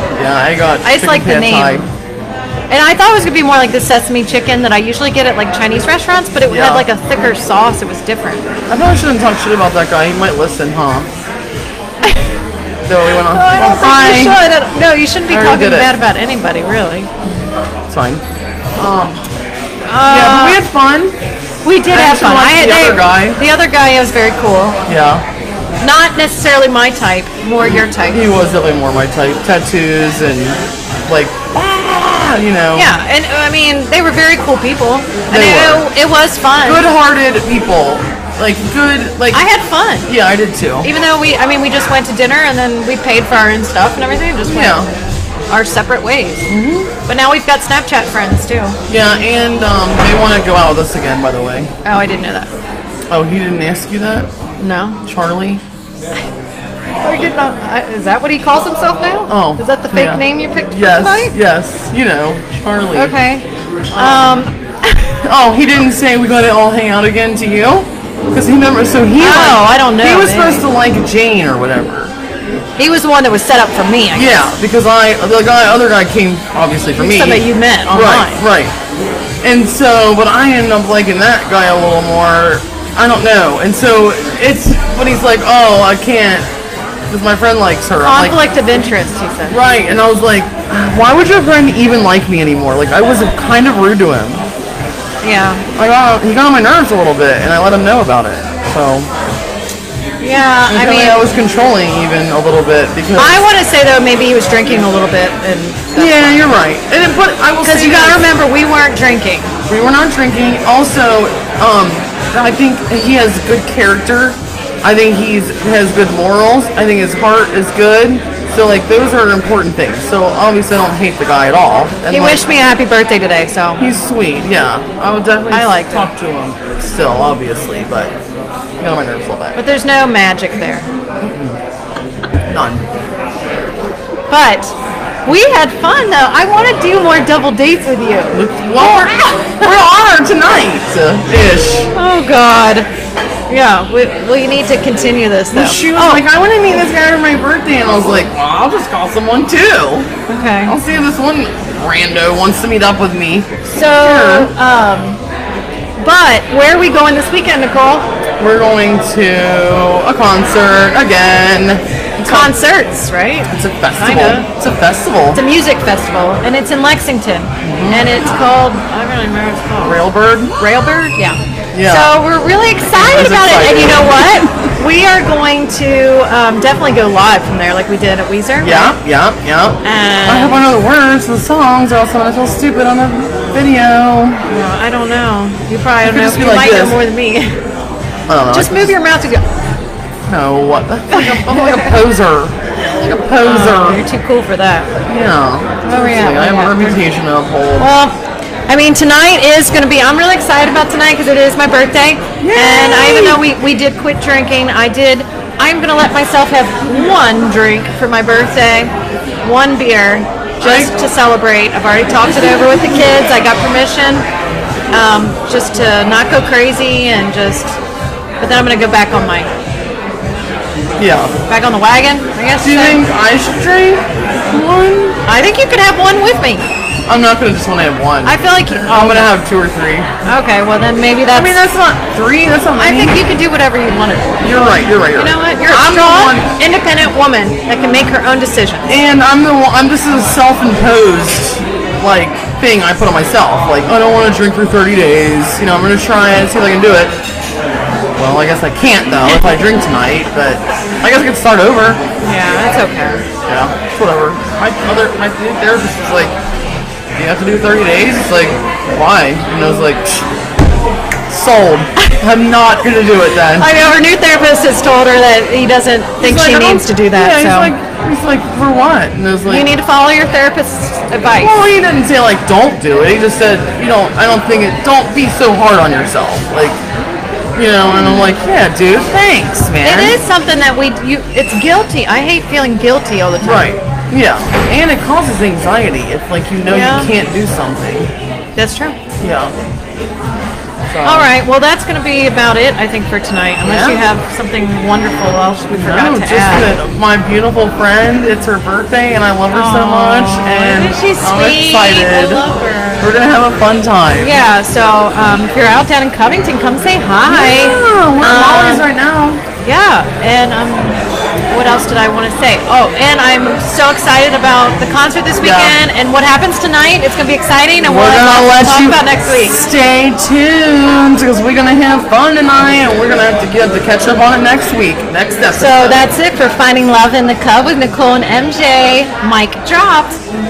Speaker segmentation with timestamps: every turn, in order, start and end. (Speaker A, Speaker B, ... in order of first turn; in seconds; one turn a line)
Speaker A: 0.1-1.9
Speaker B: 0.8-1.9
Speaker B: 2.7-8.4
Speaker A: 6.5-6.9
Speaker A: 8.7-11.1
Speaker A: 12.9-14.4
Speaker B: 13.3-17.1
Speaker A: 15.3-15.9
Speaker A: 17.9-18.2
Speaker A: 18.8-19.2
Speaker B: 19.9-20.6
Speaker A: 20.0-21.2
Speaker B: 21.6-24.8
Speaker A: 21.9-23.4
Speaker A: 24.9-25.2
Speaker B: 25.8-28.4
Speaker A: 27.6-33.0
Speaker B: 32.7-36.9
Speaker A: 35.3-35.9
Speaker A: 36.6-39.4
Speaker B: 39.3-40.1
Speaker A: 40.1-40.9
Speaker B: 40.8-44.9
Speaker A: 44.5-44.9
Speaker B: 45.5-46.5
Speaker A: 46.5-46.9
Speaker B: 47.1-48.8
Speaker A: 48.9-51.7
Speaker B: 51.9-52.5
Speaker A: 53.1-54.3
Speaker B: 54.6-55.0
Speaker A: 55.0-55.6
Speaker B: 57.0-61.4
Speaker A: 59.3-63.1
Speaker B: 62.9-65.1
Speaker A: 63.9-64.4
Speaker A: 65.2-72.1
Speaker B: 69.2-70.6
Speaker B: 72.8-74.5
Speaker A: 74.1-78.7
Speaker B: 77.0-78.4
Speaker A: 79.4-86.5
Speaker A: 87.1-88.4
Speaker B: 88.0-89.6
Speaker A: 89.5-94.4
Speaker B: 95.2-95.6
Speaker A: 95.8-99.1
Speaker B: 100.2-101.2
Speaker A: 100.7-103.4
Speaker B: 103.2-106.5
Speaker A: 105.9-108.2
Speaker B: 107.6-109.5
Speaker A: 109.7-122.4
Speaker B: 122.1-123.8
Speaker A: 123.8-128.1
Speaker B: 125.5-126.1
Speaker A: 128.8-129.6
Speaker B: 129.5-130.9
Speaker A: 131.2-131.6
Speaker A: 132.4-132.9
Speaker B: 134.3-134.7
Speaker B: 135.2-138.4
Speaker A: 138.3-141.9
Speaker B: 141.9-142.9
Speaker B: 143.5-146.2
Speaker A: 145.5-150.1
Speaker B: 150.3-150.7
Speaker A: 150.6-154.5
Speaker B: 153.7-155.2
Speaker B: 156.0-158.1
Speaker A: 158.4-162.5
Speaker B: 162.2-164.5
Speaker A: 163.5-165.4
Speaker B: 165.3-170.0
Speaker A: 167.6-168.2
Speaker A: 169.8-170.5
Speaker B: 170.6-179.0
Speaker A: 171.7-172.2
Speaker A: 172.8-174.6
Speaker A: 178.6-184.4
Speaker B: 179.8-180.6
Speaker B: 184.5-187.6
Speaker A: 186.0-187.0
Speaker A: 188.3-188.9
Speaker B: 188.5-189.4
Speaker A: 190.3-194.1
Speaker B: 191.1-191.9
Speaker B: 193.4-194.9
Speaker A: 195.1-197.9
Speaker B: 195.8-196.9
Speaker B: 197.8-198.2
Speaker B: 198.7-214.2
Speaker A: 202.4-203.4
Speaker A: 210.6-210.9
Speaker B: 214.9-217.8
Speaker B: 218.4-219.5
Speaker A: 221.0-221.3
Speaker B: 221.5-223.0
Speaker A: 222.6-225.2
Speaker B: 225.2-226.7
Speaker A: 227.1-230.1
Speaker B: 228.2-229.3
Speaker B: 230.2-231.8
Speaker A: 231.3-233.2
Speaker B: 232.8-238.9
Speaker A: 234.4-236.5
Speaker A: 238.9-247.2
Speaker A: 248.2-252.0
Speaker B: 252.2-253.2
Speaker A: 253.5-256.4
Speaker A: 257.1-260.3
Speaker A: 261.3-263.7
Speaker B: 263.6-267.7
Speaker A: 266.2-269.7
Speaker B: 269.4-271.6
Speaker A: 271.2-276.8
Speaker A: 277.5-280.2
Speaker B: 279.8-283.7
Speaker A: 283.4-288.1
Speaker B: 286.7-287.1
Speaker B: 288.6-289.0
Speaker A: 289.2-289.5
Speaker A: 290.9-291.3
Speaker B: 291.0-296.8
Speaker A: 293.6-294.0
Speaker A: 295.8-302.4
Speaker B: 299.5-303.1
Speaker A: 303.0-304.4
Speaker B: 304.1-308.9
Speaker A: 307.3-309.4
Speaker B: 309.6-319.6
Speaker A: 315.4-315.8
Speaker A: 317.8-326.0
Speaker B: 325.5-330.2